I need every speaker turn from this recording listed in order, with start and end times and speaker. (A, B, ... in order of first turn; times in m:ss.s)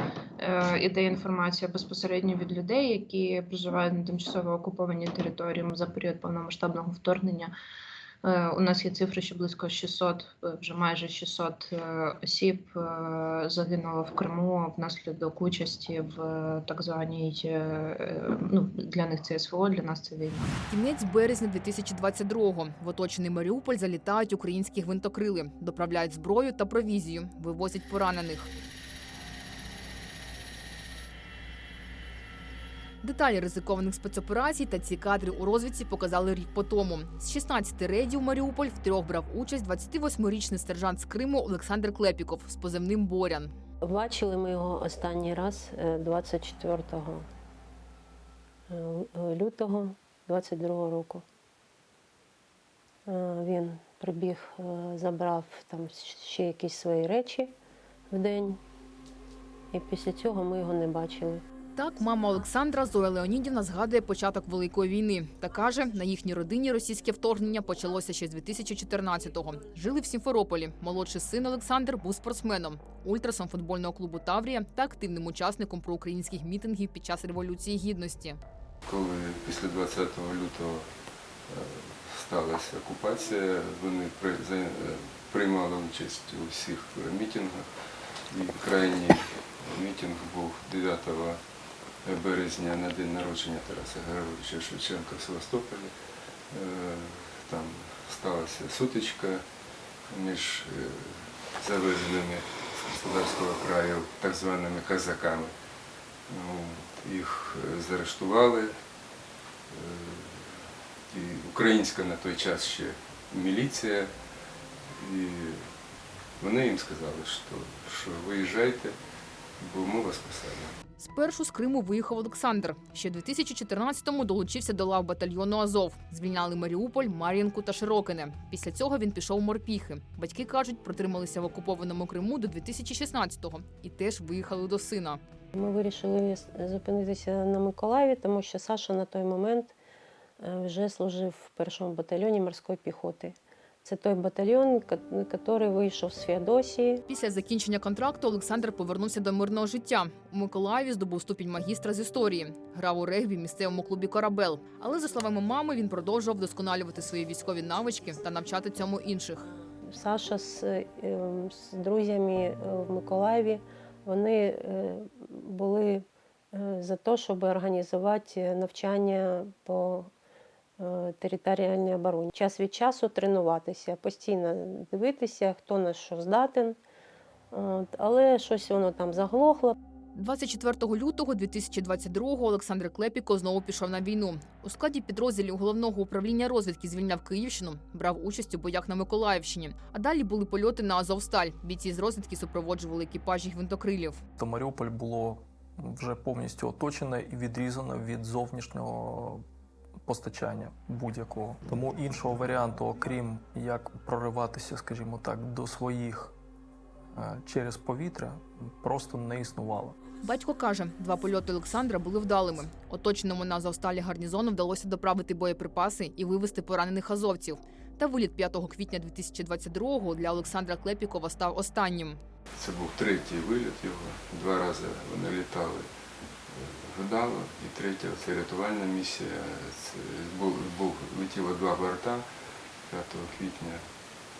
0:00.4-0:07.5 A
0:08.2-0:20.5 A
0:20.7-0:28.5 B
0:33.0-0:43.5 B
0:43.8-0:47.2 C
0:48.7-0:51.2 C
0:53.1-0:57.5 C
0:58.1-0:58.6 C
0:59.7-1:01.4 C
1:01.8-1:18.4 B
1:18.8-1:31.4 D
1:32.0-1:39.4 D
1:40.1-1:45.5 D
1:46.3-1:48.7 D
1:49.7-1:54.1 D
1:54.9-1:55.7 D
1:56.4-1:59.0 D
1:59.6-2:00.7 D
2:01.0-2:15.2 B
2:15.5-2:19.7 C
2:20.4-2:27.0 C
2:27.1-2:39.5 B
2:39.9-2:50.1 C
2:50.8-2:56.8 C
2:57.5-2:59.8 C
3:00.2-3:14.2 B
3:14.4-3:19.4 E
3:20.0-3:26.3 E
3:27.1-3:30.0 E
3:30.2-3:42.2 B
3:42.5-3:45.9 D
3:46.5-3:52.3 D
3:52.9-3:53.8 D